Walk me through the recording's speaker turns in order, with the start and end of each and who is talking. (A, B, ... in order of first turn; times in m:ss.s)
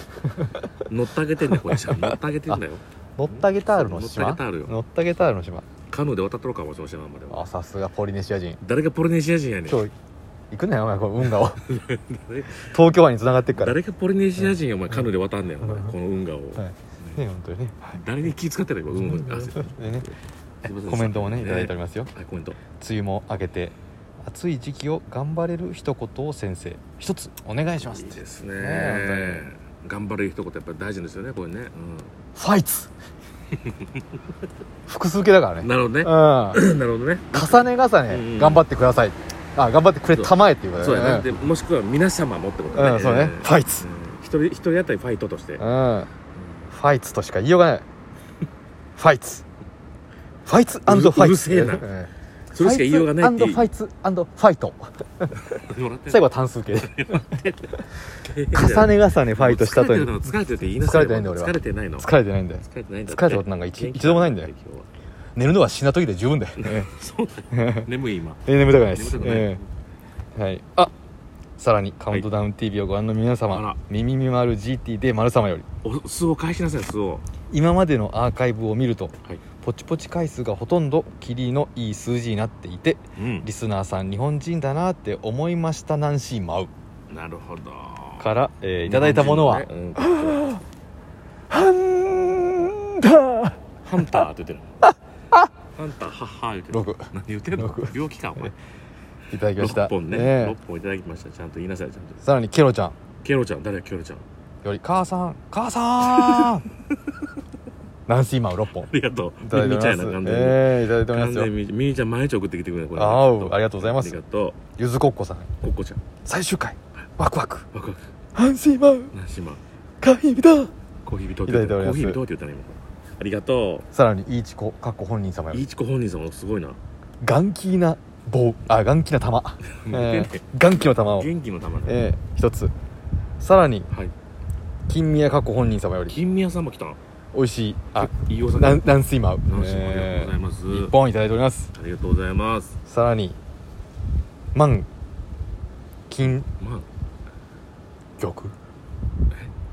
0:00.2-0:00.6 A
0:00.9-0:04.7 B
0:01.5-0:02.2 A
0:03.2-0:05.6 A
0:05.9-0:07.5 B
0:07.3-0:08.6 A
0:08.6-0:09.8 B
0:09.7-0:09.9 A
0:10.5-0:11.6 A
0:11.7-0:12.7 B
0:12.6-0:13.8 A
0:13.5-0:17.2 B
0:15.6-0:15.9 A
0:16.6-0:18.0 A
0:18.0-0:22.6 B
0:18.9-0:20.1 A
0:20.6-0:22.1 A
0:22.8-0:29.5 A
0:27.8-0:32.1 B
0:32.4-0:32.9 A
0:34.9-0:36.6 A
0:35.6-0:38.7 B
0:37.3-0:41.3 A
0:40.1-0:45.6 B
0:42.7-0:43.9 A
0:45.6-0:46.1 A
0:46.7-0:47.8 A
0:49.0-0:49.4 A
0:50.4-0:55.4 A
0:50.8-0:51.9 B
0:52.5-0:53.7 B
0:55.5-1:02.1 B
0:56.1-0:57.2 A
0:58.5-1:00.2 A
1:00.8-1:04.5 A
1:02.6-1:04.9 B
1:05.4-1:06.9 A
1:06.6-1:08.4 B
1:07.5-1:07.9 A
1:08.4-1:09.6 A
1:08.9-1:09.6 B
1:10.4-1:10.9 A
1:11.6-1:15.6 A
1:13.5-1:13.8 B
1:15.8-1:17.2 B
1:17.5-1:26.7 A
1:23.2-1:23.5 B
1:27.1-1:28.3 B
1:28.2-1:30.6 A
1:28.9-1:30.6 B
1:31.5-1:33.6 A
1:33.8-1:34.7 B
1:35.7-1:38.5 B
1:36.7-1:38.5 A
1:39.3-1:40.6 A
1:39.5-1:42.2 B
1:42.2-1:42.9 A
1:43.2-1:44.2 B
1:44.6-1:46.6 A
1:46.1-1:46.5 B
1:48.1-1:48.9 A
1:48.8-1:54.6 B
1:49.4-1:51.5 A
1:52.9-1:54.2 A
1:54.8-1:55.5 A
1:55.6-1:56.0 B
1:56.2-1:57.7 A
1:57.7-1:58.1 B
1:58.3-1:59.1 A
1:59.1-1:59.6 B
2:00.0-2:00.7 A
2:01.0-2:03.9 B
2:01.4-2:02.2 A
2:03.9-2:05.6 A
2:05.5-2:06.8 B
2:07.2-2:11.3 A
2:09.7-2:12.0 B
2:11.8-2:12.7 A
2:13.4-2:13.9 A
2:14.9-2:16.2 A
2:16.1-2:17.0 B
2:17.3-2:21.7 A
2:18.0-2:18.9 B
2:19.4-2:20.9 B
2:21.7-2:22.7 B
2:22.9-2:23.4 A
2:24.5-2:24.9 A
2:26.1-2:26.5 A
2:26.6-2:26.8 B
2:28.2-2:28.5 A